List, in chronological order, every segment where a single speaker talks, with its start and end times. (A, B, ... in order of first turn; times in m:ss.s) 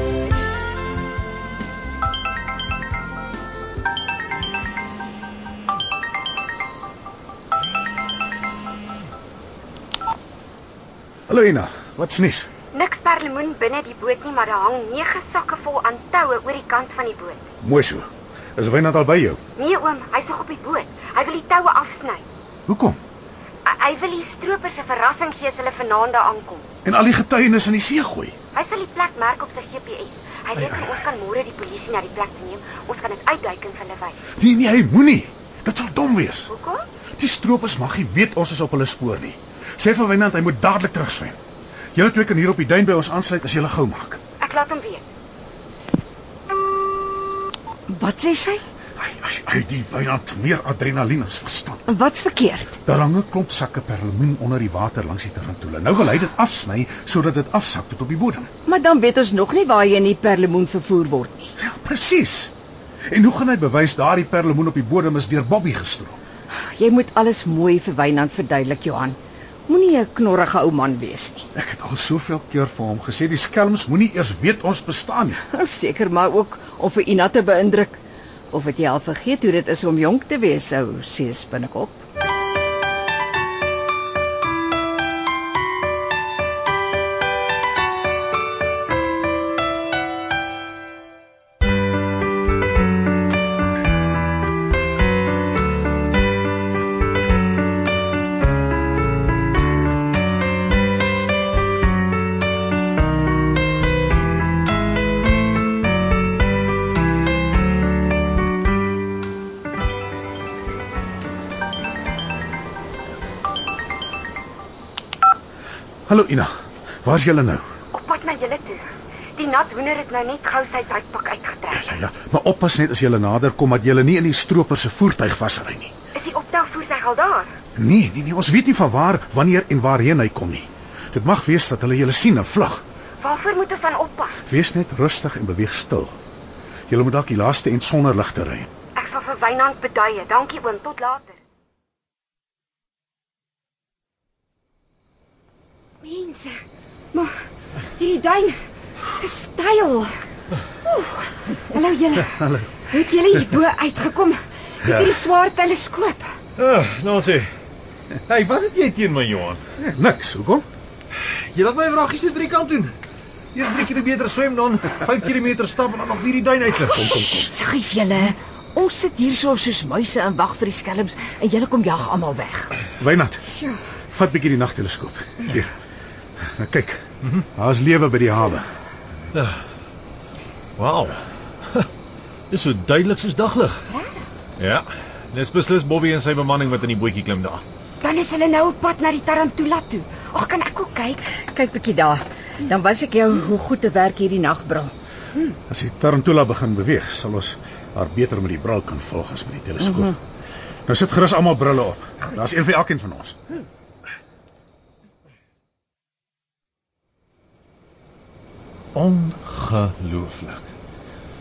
0:11.3-0:12.5 A
0:12.7-0:17.4 B
0:17.6-0:19.4 A
0:19.6-0:22.2 B
0:22.7-0:23.0 A
0:23.7-0:26.6 B
0:26.8-0:28.4 A
0:28.5-0:34.2 B
0:30.6-0:31.0 A
0:34.3-0:36.5 A
0:36.5-0:36.8 B
0:37.2-0:41.4 A
0:42.0-0:44.2 A
0:44.4-0:45.0 B
0:47.9-0:48.6 C
0:49.0-0:51.9 A
0:51.9-0:52.8 C
0:52.8-0:58.5 A
0:58.6-1:01.5 C
1:01.6-1:02.5 A
1:03.1-1:06.2 A
1:06.5-1:09.2 C
1:09.7-1:11.5 C
1:11.5-1:15.4 A
1:15.4-1:18.0 C
1:18.5-1:22.0 C
1:56.1-1:56.5 A
1:57.0-1:57.6 A
1:57.9-2:01.9 B
2:01.7-2:05.9 A
2:06.2-2:07.5 B
2:07.8-2:12.8 A
2:13.2-2:14.4 B
2:14.4-2:16.2 A
2:16.9-2:18.7 A
2:19.0-2:21.4 B
2:26.0-2:26.6 B
2:28.0-2:30.2 B
2:30.8-2:36.4 B
2:32.3-2:32.8 A
2:36.6-2:37.5 D
2:38.3-2:39.6 D
2:39.8-2:40.6 A
2:41.2-2:42.9 D
2:43.6-2:47.3 D
2:47.0-2:47.4 A
2:47.5-2:52.7 C
2:53.0-2:53.5 A
2:54.1-2:55.7 A
2:56.4-2:58.7 A
3:00.8-3:01.9 D
3:02.5-3:03.9 D
3:03.9-3:04.3 B
3:04.6-3:07.6 D
3:08.0-3:11.3 B
3:11.4-3:14.9 C
3:15.7-3:20.2 A
3:20.9-3:23.4 A
3:29.0-3:30.7 D